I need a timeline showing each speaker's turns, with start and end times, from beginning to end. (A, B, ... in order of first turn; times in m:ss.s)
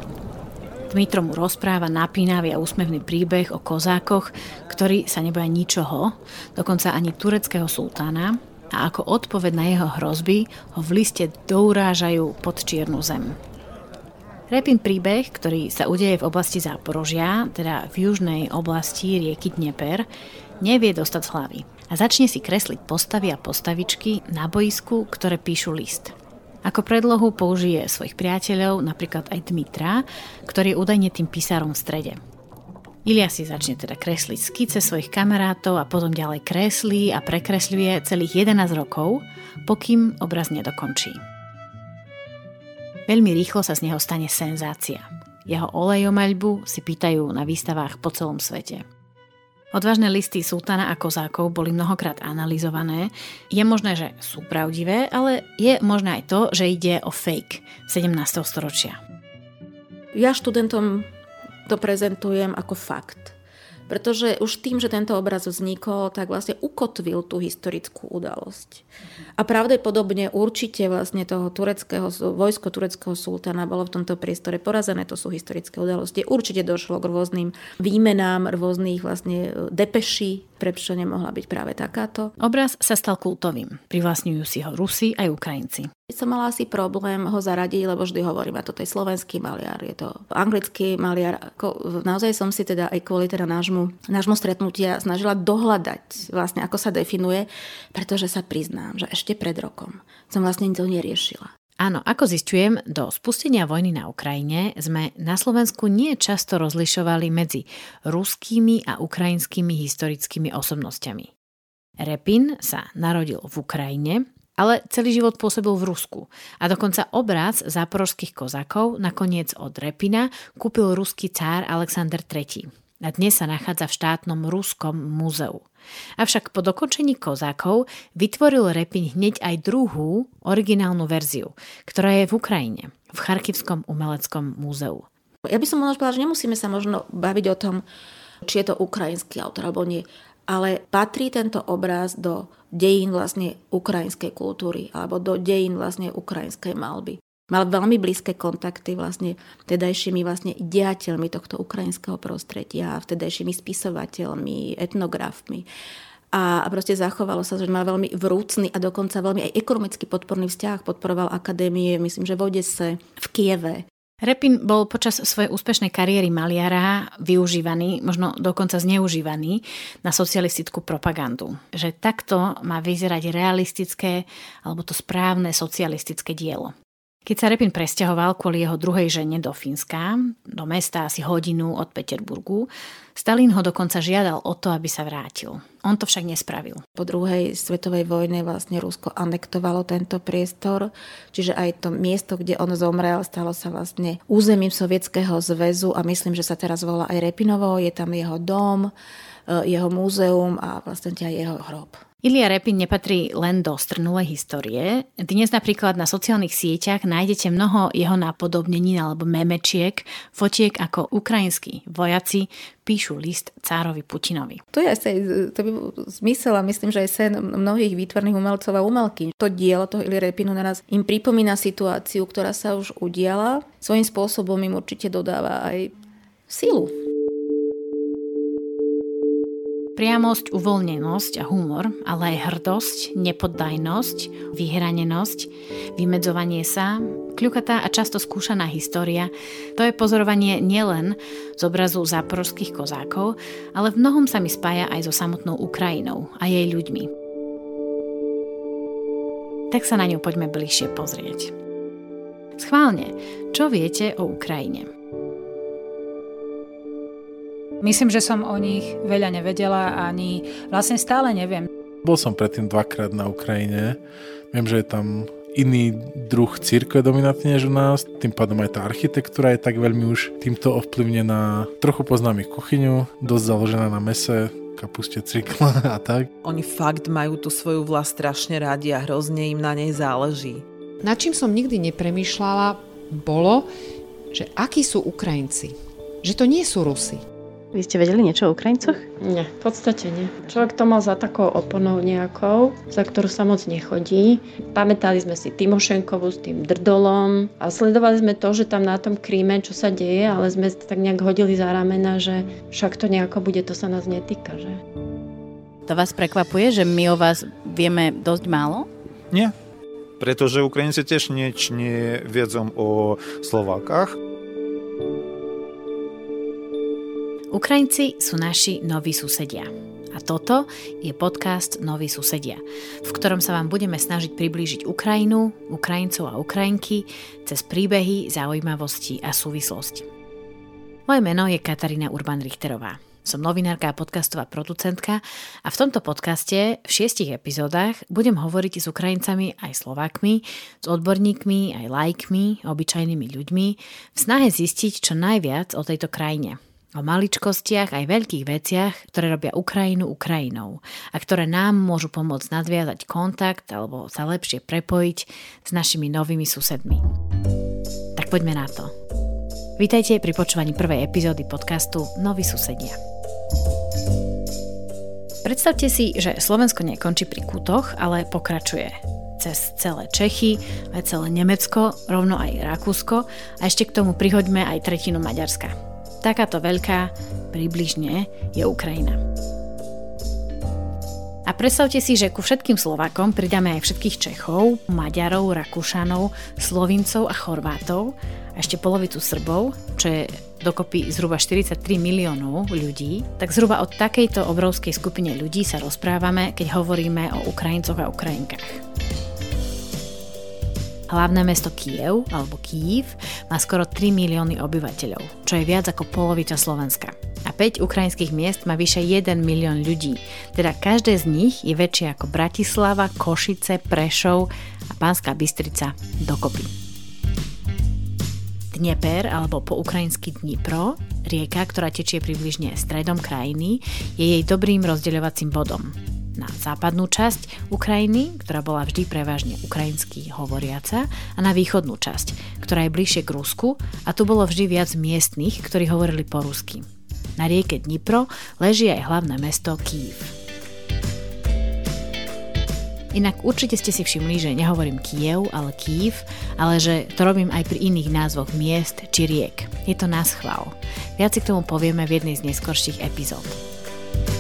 0:00.9-0:13.4 A
0:14.5-0:20.1 A
0:20.6-0:32.2 A
0:33.0-0:41.2 A
0:43.1-0:48.8 A
0:49.7-0:59.0 A
1:00.1-1:01.1 B
1:01.7-1:03.4 B
1:03.9-1:08.8 B
1:09.4-1:22.3 B
1:22.4-1:25.9 A
1:26.1-1:41.5 B
1:41.8-1:51.3 A
1:52.0-2:05.7 A
2:06.2-2:15.1 A
2:15.5-2:17.9 B
2:18.4-2:35.7 B
2:36.3-2:43.9 B
2:44.2-2:56.7 A
2:57.3-3:06.8 A
3:07.0-3:18.9 B
3:19.5-3:22.0 B
3:22.2-3:34.6 A
3:34.7-3:45.9 B
3:46.5-3:47.0 B
3:50.0-4:07.1 A
4:09.7-4:11.5 A
4:12.6-4:14.9 A
4:17.8-4:21.7 C
4:22.0-4:24.0 D
4:24.5-4:36.3 D
4:36.4-4:40.6 E
4:41.0-4:43.7 F
4:44.3-4:47.2 F
4:47.7-4:49.1 G
4:49.2-5:04.8 H
5:05.9-5:08.9 G
5:10.2-5:14.2 I
5:17.5-5:30.1 A
5:31.1-5:57.0 A
5:58.2-5:58.9 A
5:59.8-6:03.0 A
6:05.4-6:19.2 A
6:21.5-6:38.8 A
6:41.1-6:56.7 A
6:58.7-7:16.8 A
7:17.4-7:20.4 A
7:23.1-7:33.6 A